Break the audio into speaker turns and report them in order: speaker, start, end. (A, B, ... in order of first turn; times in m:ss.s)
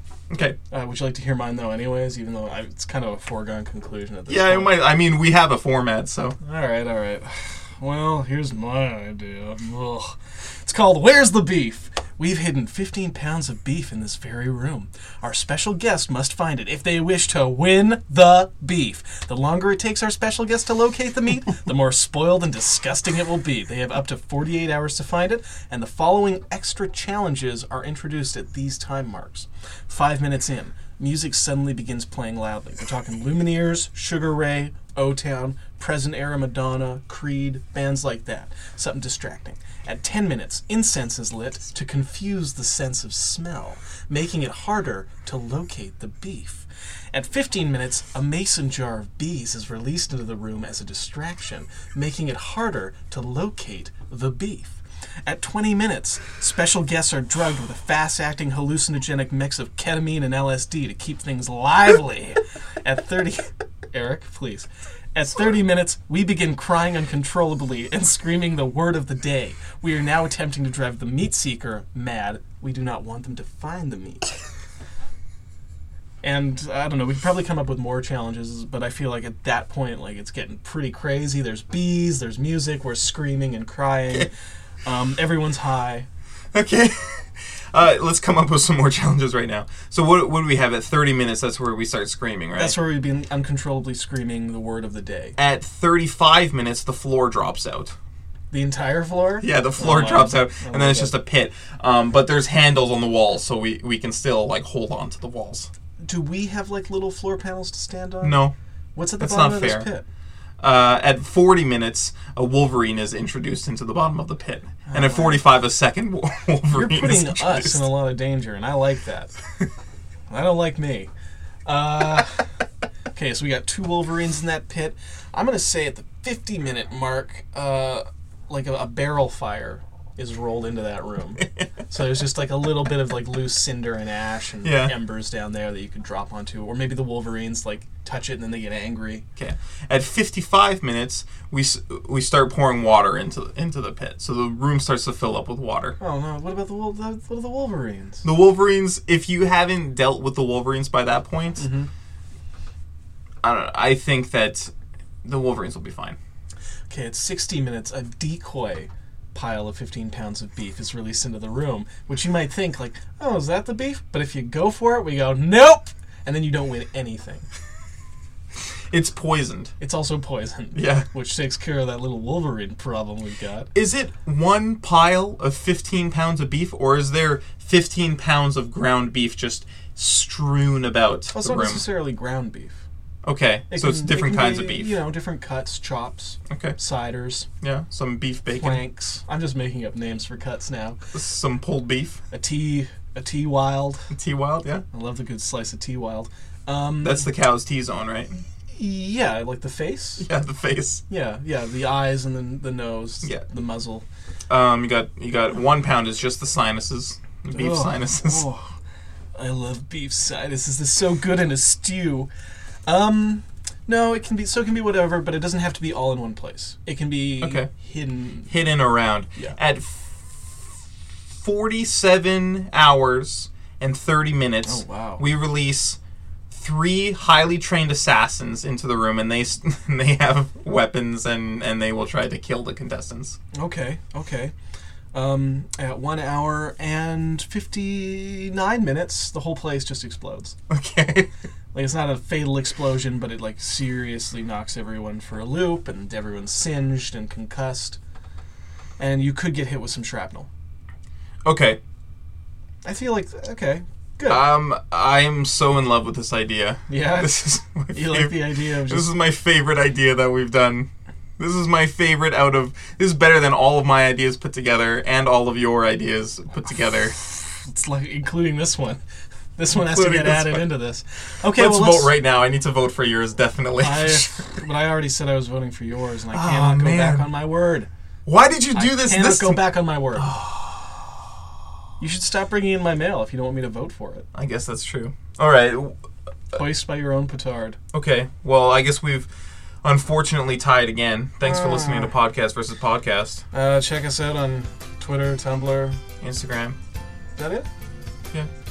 0:00.3-0:00.6 A
0:00.7-0:04.8 B
0:04.3-0:06.4 A
0:06.4-1:14.4 B
1:16.2-1:24.3 B
1:24.8-1:26.1 B
1:26.5-1:32.8 A
1:32.6-1:35.4 B
1:35.4-1:37.9 A
1:38.5-1:41.2 B
1:39.4-1:45.7 A
1:46.0-1:48.4 B
1:48.2-1:48.5 A
1:49.0-1:50.0 B
1:49.2-1:49.9 A
1:50.6-1:57.9 A
1:54.9-1:55.5 B
1:56.7-1:59.3 B
2:00.3-2:01.1 B
2:01.7-2:02.4 B
2:03.1-2:19.2 B
2:14.6-2:14.9 A
2:19.4-2:26.0 A
2:26.0-2:28.2 B
2:28.2-2:31.7 A
2:31.6-2:31.9 B
2:33.4-2:34.7 A
2:35.2-2:36.2 A
2:36.9-2:47.5 B
2:48.9-2:49.7 A
2:49.8-2:53.7 B
2:50.8-2:51.1 A
2:53.8-3:01.9 A
3:01.3-3:02.8 B
3:03.2-3:04.9 A
3:03.7-3:07.5 B
3:06.5-3:06.8 A
3:07.6-3:08.8 A
3:08.5-3:11.0 B
3:11.1-3:12.2 A
3:12.3-3:14.1 B
3:14.1-3:14.8 A
3:14.9-3:17.3 B
3:17.0-3:18.3 A
3:18.7-3:20.3 B
3:20.2-3:21.0 A
3:21.1-3:24.1 B
3:24.5-3:28.5 A
3:27.5-3:28.7 B
3:29.4-3:32.3 B
3:32.9-3:38.5 B
3:37.4-3:37.7 A
3:38.5-3:46.0 A
3:44.6-3:45.2 B
3:46.5-3:53.4 A
3:53.5-3:54.5 B
3:55.1-4:00.6 B
4:00.7-4:01.3 A
4:01.7-4:08.0 B
4:09.0-4:10.5 B
4:11.4-4:11.8 A
4:12.8-4:14.5 B
4:14.3-4:27.2 A
4:16.9-4:19.1 B
4:27.4-4:29.0 B
4:29.6-4:32.1 B
4:29.7-4:30.6 A
4:31.4-4:34.4 A
4:33.8-4:37.9 B
4:36.3-4:37.3 A
4:38.3-4:39.6 A
4:38.7-4:40.5 B
4:40.3-4:40.6 A
4:42.0-4:44.3 B
4:44.3-4:46.0 A
4:46.5-4:47.8 B
4:47.9-4:49.3 A
4:49.8-4:53.4 A
4:51.4-4:52.1 B
4:53.5-4:56.0 B
4:56.2-4:56.8 A
4:57.4-4:57.7 B